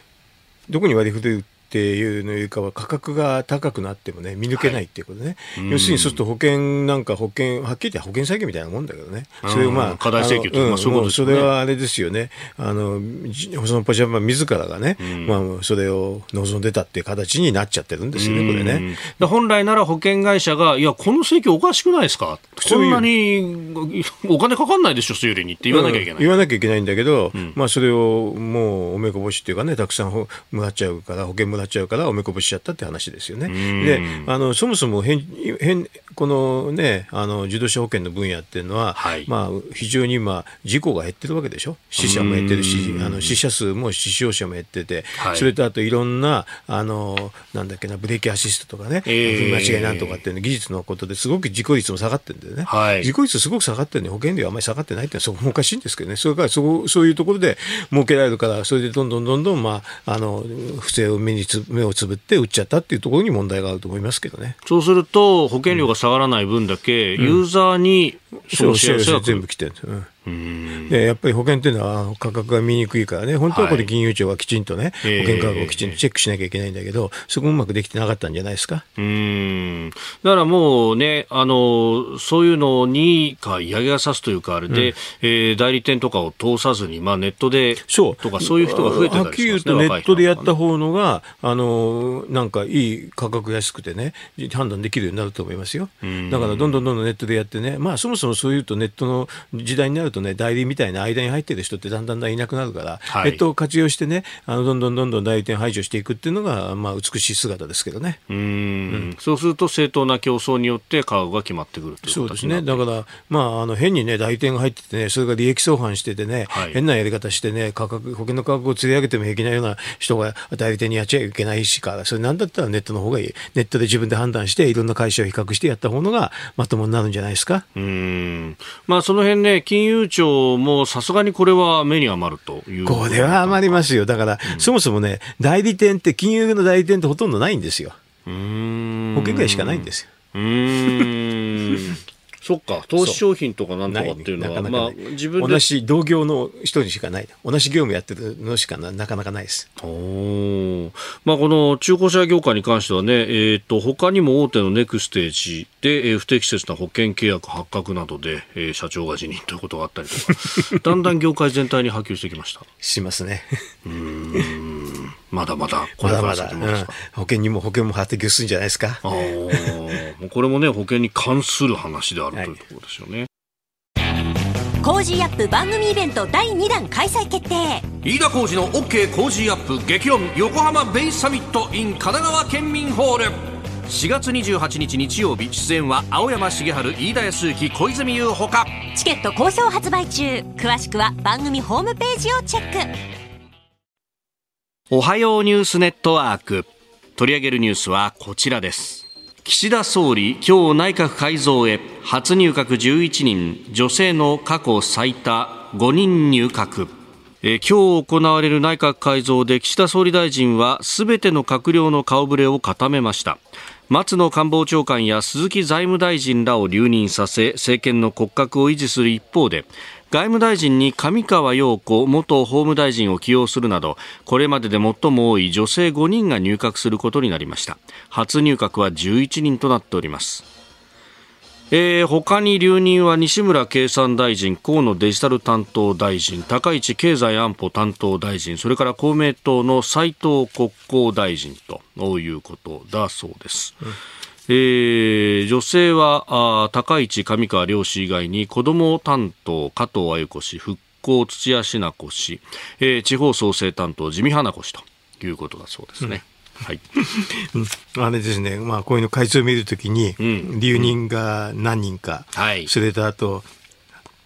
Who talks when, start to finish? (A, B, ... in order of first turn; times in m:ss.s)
0:00.7-0:18.8 A
0:04.5-0:04.8 B
0:05.5-0:06.2 B
0:09.4-0:11.5 B
0:15.0-0:15.4 B
0:18.1-0:26.4 B
0:22.6-0:23.1 A
0:25.7-1:04.6 A
0:33.4-0:34.3 B
0:38.9-0:39.3 B
0:42.0-0:43.4 B
0:45.2-0:45.5 B
0:49.0-0:50.2 B
0:52.6-0:53.1 B
1:04.6-1:09.4 B
1:07.2-1:07.4 A
1:08.5-1:10.1 A
1:10.2-1:11.0 B
1:10.9-1:18.8 A
1:13.5-1:13.9 B
1:15.0-1:16.0 B
1:19.0-1:30.5 B
1:27.9-1:48.2 A
1:36.0-1:36.8 B
1:43.1-1:43.4 B
1:48.3-1:52.8 B
1:52.0-2:07.6 A
1:56.5-1:56.8 B
2:07.7-2:13.8 B
2:12.8-2:18.0 A
2:18.2-2:25.6 B
2:19.1-2:20.1 A
2:23.9-2:29.7 A
2:29.8-2:42.7 B
2:42.8-2:43.6 A
2:43.8-2:47.0 B
2:46.0-2:49.8 A
2:49.0-2:53.3 B
2:54.8-2:57.8 C
2:58.0-3:08.8 B
3:08.9-3:12.9 C
3:14.9-3:50.4 B
3:51.7-4:03.8 B
4:04.5-4:16.8 B
4:16.9-4:23.5 A
4:20.2-4:21.0 B
4:22.3-4:22.7 B